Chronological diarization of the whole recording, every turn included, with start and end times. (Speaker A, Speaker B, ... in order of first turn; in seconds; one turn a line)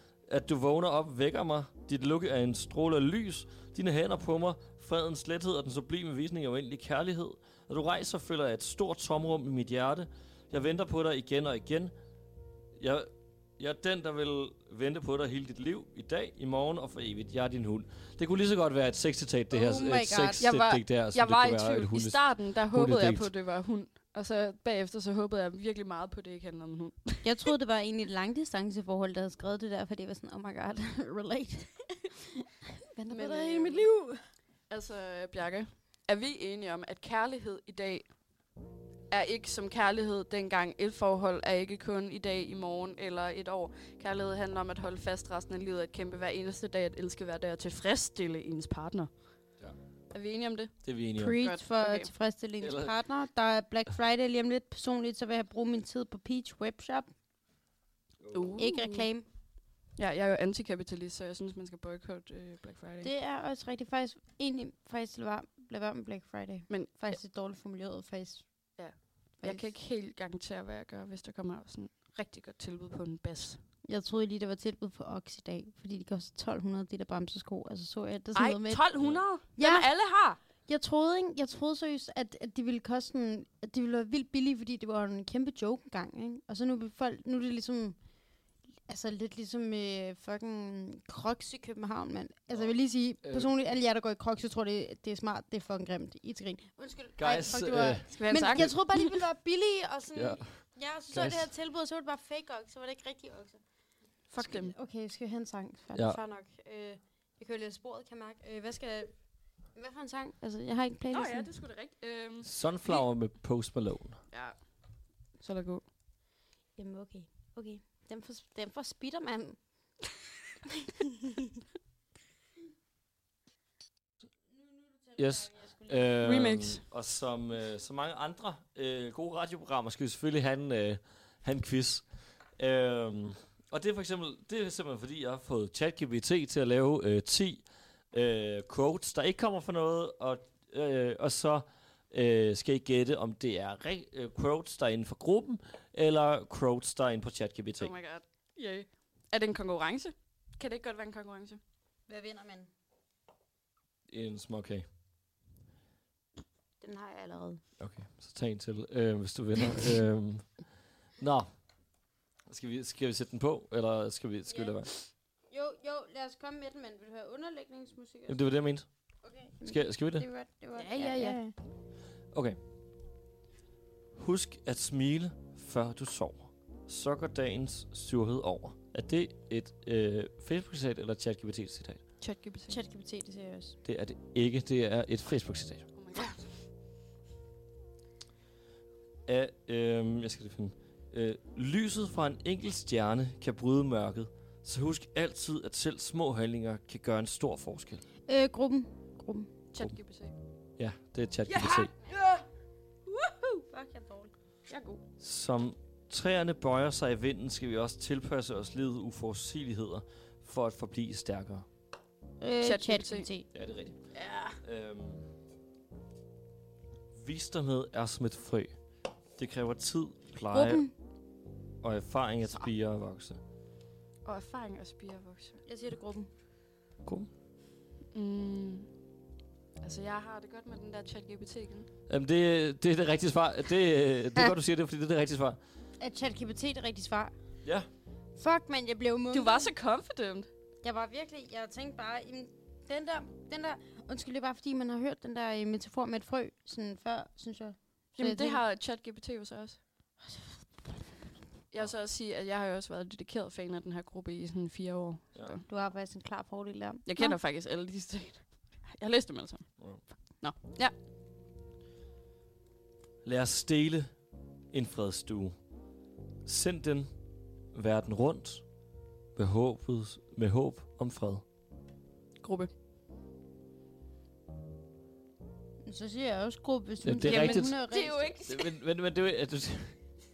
Speaker A: 0.3-11.9
Speaker A: 12.8-23.3
Speaker B: 19.5-20.4
Speaker C: 20.4-27.5
Speaker B: 27.2-32.4
Speaker C: 33.0-33.9
Speaker B: 33.0-34.2
Speaker C: 34.7-38.1
Speaker C: 39.1-49.1
Speaker C: 50.1-50.8
Speaker A: 50.8-51.4
Speaker B: 51.2-57.1
Speaker C: 51.4-52.1
Speaker A: 52.6-52.9
Speaker A: 58.2-58.5
Speaker C: 58.3-59.1
Speaker B: 58.6-59.2
Speaker C: 60.0-63.1
Speaker B: 63.0-68.5
Speaker C: 66.7-67.2
Speaker C: 68.8-73.6
Speaker B: 69.4-69.7
Speaker B: 73.8-78.8
Speaker C: 78.3-80.4
Speaker B: 79.5-79.9
Speaker B: 80.7-88.0
Speaker B: 88.9-103.6
Speaker A: 93.2-93.5
Speaker A: 97.2-98.7
Speaker C: 98.1-99.1
Speaker A: 100.1-100.5
Speaker A: 101.1-101.5
Speaker C: 104.3-104.7
Speaker B: 104.4-109.1
Speaker B: 109.7-111.5
Speaker C: 111.1-113.0
Speaker A: 112.4-114.2
Speaker C: 114.3-114.6
Speaker C: 115.4-115.8
Speaker B: 116.8-119.6
Speaker B: 124.6-126.1
Speaker A: 125.2-132.0
Speaker C: 126.2-126.8
Speaker A: 132.6-147.9
Speaker C: 147.8-151.6
Speaker B: 152.1-152.7
Speaker A: 154.1-154.8
Speaker B: 156.8-157.6
Speaker A: 157.8-160.6
Speaker A: 161.2-161.5
Speaker A: 162.5-164.9
Speaker B: 164.5-164.9
Speaker B: 165.5-168.5
Speaker A: 168.3-168.9
Speaker B: 169.2-171.5
Speaker A: 169.7-170.2
Speaker C: 170.8-171.4
Speaker A: 172.3-172.6
Speaker A: 174.1-182.0
Speaker C: 182.2-182.8
Speaker B: 182.7-183.8
Speaker A: 183.8-185.8
Speaker C: 185.9-186.5
Speaker A: 189.2-198.0
Speaker B: 198.3-199.5
Speaker C: 199.7-200.3
Speaker A: 200.8-201.9
Speaker C: 201.5-202.4
Speaker C: 203.1-203.6
Speaker B: 203.7-204.3
Speaker C: 204.7-205.0
Speaker A: 205.2-211.7
Speaker B: 212.4-213.4
Speaker C: 212.6-213.3
Speaker A: 213.5-214.0
Speaker C: 214.1-214.6
Speaker A: 214.6-215.2
Speaker A: 217.1-218.7
Speaker A: 219.4-220.8
Speaker B: 220.5-220.9
Speaker A: 221.8-223.4
Speaker C: 224.2-225.6
Speaker B: 225.7-226.3
Speaker C: 228.1-228.9
Speaker C: 229.8-231.9
Speaker A: 232.1-235.6
Speaker B: 236.0-237.3
Speaker B: 238.3-239.7
Speaker C: 239.3-240.5
Speaker B: 240.8-248.6
Speaker C: 248.2-249.8
Speaker C: 251.7-255.6
Speaker B: 255.7-257.4
Speaker C: 257.1-260.9
Speaker A: 263.2-264.1
Speaker A: 264.7-265.5
Speaker A: 266.4-267.1
Speaker A: 267.7-268.6
Speaker A: 269.4-271.4
Speaker C: 272.4-272.7
Speaker B: 275.8-278.3
Speaker A: 277.0-277.8
Speaker C: 277.2-278.7
Speaker A: 278.4-279.9